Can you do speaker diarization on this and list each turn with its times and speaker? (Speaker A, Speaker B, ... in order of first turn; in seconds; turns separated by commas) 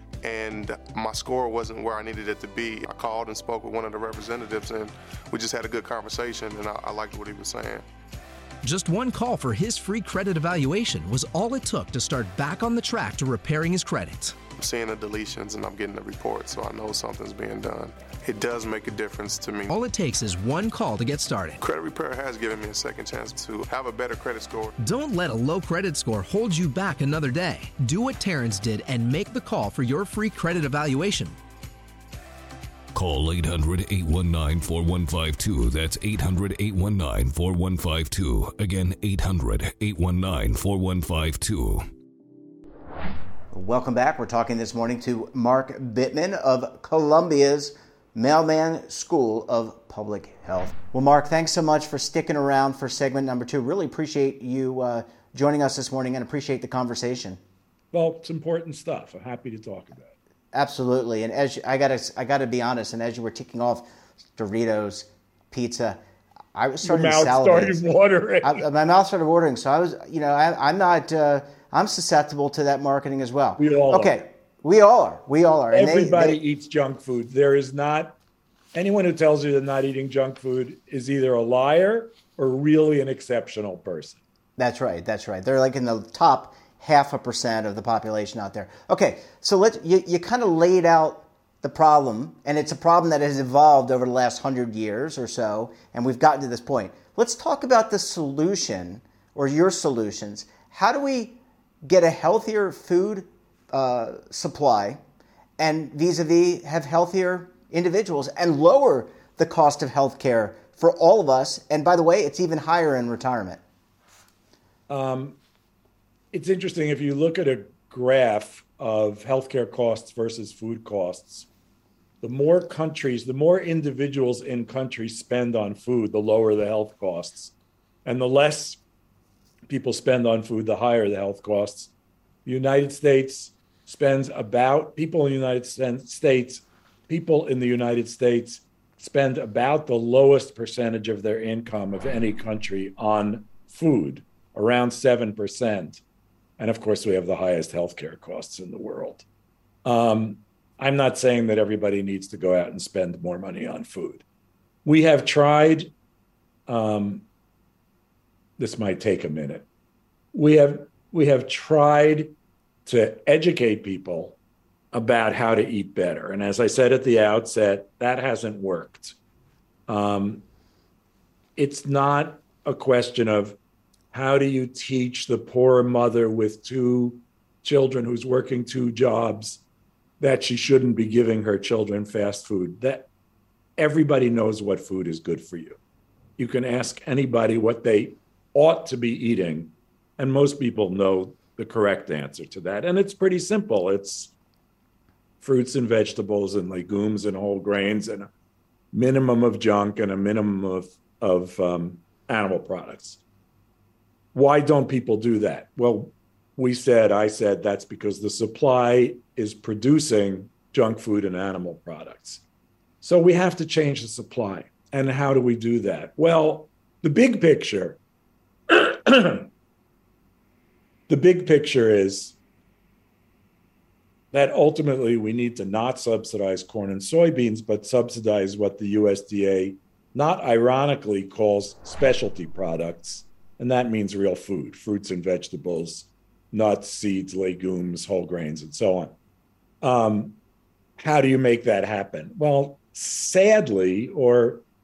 Speaker A: 0.2-7.8, Speaker B: 8.6-14.4, Speaker A: 14.6-19.7, Speaker B: 19.7-21.6, Speaker A: 21.6-24.7, Speaker B: 24.8-31.4, Speaker C: 32.9-41.9, Speaker D: 43.5-57.4, Speaker E: 57.9-60.1, Speaker D: 60.5-66.0, Speaker D: 66.5-67.8, Speaker E: 66.8-68.7, Speaker D: 68.4-76.4, Speaker E: 73.6-74.2, Speaker E: 75.7-78.2, Speaker E: 78.8-84.2, Speaker D: 84.6-105.0, Speaker D: 105.6-113.6, Speaker E: 114.9-115.4, Speaker E: 116.3-121.5, Speaker E: 122.2-127.5, Speaker E: 128.1-128.8, Speaker E: 129.7-131.9, Speaker E: 132.4-146.0, Speaker E: 146.6-149.2, Speaker E: 149.8-154.2, Speaker E: 154.8-155.9, Speaker E: 156.7-157.2, Speaker E: 158.6-159.7, Speaker E: 160.3-162.3, Speaker E: 162.9-164.4, Speaker E: 164.9-169.2, Speaker E: 169.9-170.4, Speaker E: 171.6-173.6, Speaker E: 174.1-179.6, Speaker E: 180.2-183.1, Speaker E: 183.8-185.8, Speaker E: 186.4-194.3, Speaker E: 195.4-198.3, Speaker E: 198.9-203.2, Speaker E: 204.3-212.4, Speaker E: 213.0-218.0, Speaker E: 218.7-219.5, Speaker E: 221.1-222.4, Speaker E: 224.3-239.1, Speaker E: 239.8-240.4, Speaker E: 241.0-244.7